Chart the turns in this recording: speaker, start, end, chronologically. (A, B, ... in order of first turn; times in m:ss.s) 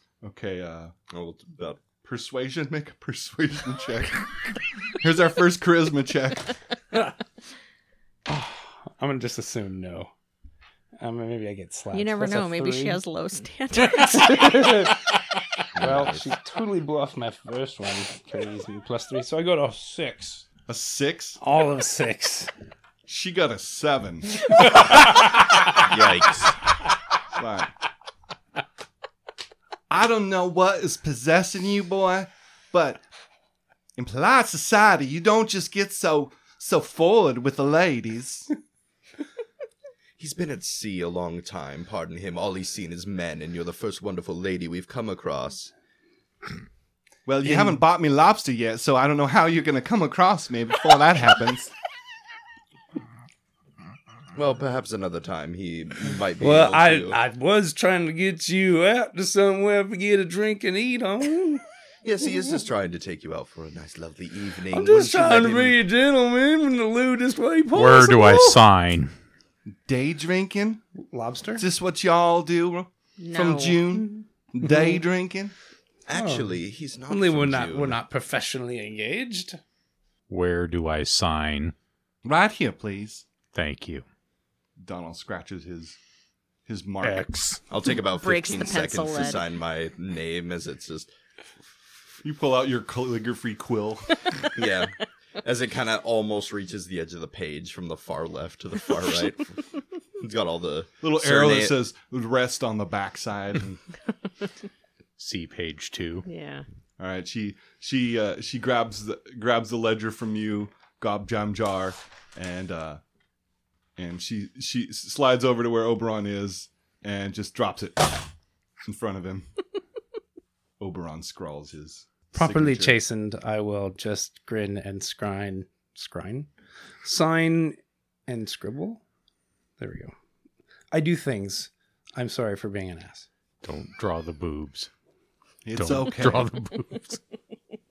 0:00.2-0:00.9 A
0:01.1-0:01.8 B
0:02.0-0:06.6 A
0:08.3-0:10.1 C
0:11.0-0:13.0 C
0:11.9-0:14.9 D
0:13.8-0:20.5 C
0:15.7-0:16.3 B
0:20.7-0:21.4 A
0:21.4-0:22.5 C
0:23.0-0:25.1 A
0:24.5-0:25.7 C
0:25.7-0:26.5 B
0:27.3-0:27.7 A
0:29.9-0:33.0 A
0:34.0-0:38.5 A
0:40.2-0:45.7 B
0:47.2-0:51.7 A
0:47.4-0:47.8 C
0:54.3-0:57.2 B
0:56.4-1:01.6 C
1:02.0-1:05.8 B
1:04.7-1:08.6 C
1:07.7-1:09.1 E
1:08.2-1:08.6 A
1:09.8-1:10.8 A
1:11.0-1:11.6 C
1:11.6-1:15.5 A
1:13.2-1:14.1 D
1:16.1-1:18.0 B
1:16.1-1:19.6 C
1:20.3-1:21.7 E
1:22.2-1:23.2 A
1:23.5-1:24.0 E
1:24.8-1:26.0 A
1:26.6-1:27.3 A
1:27.0-1:27.6 E
1:27.7-1:31.1 B
1:27.9-1:29.4 D
1:32.2-1:34.4 A
1:34.6-1:39.6 B
1:40.2-1:41.8 B
1:41.0-1:43.8 A
1:45.2-1:46.2 E
1:46.2-1:46.6 D
1:47.0-1:53.0 A
1:54.0-1:58.3 A
1:58.8-1:59.5 A
2:00.8-2:03.0 A
2:02.3-2:06.5 C
2:07.0-2:09.0 C
2:09.8-2:10.1 C
2:10.9-2:13.3 C
2:13.6-2:14.9 E
2:15.6-2:16.5 A
2:15.8-2:17.2 E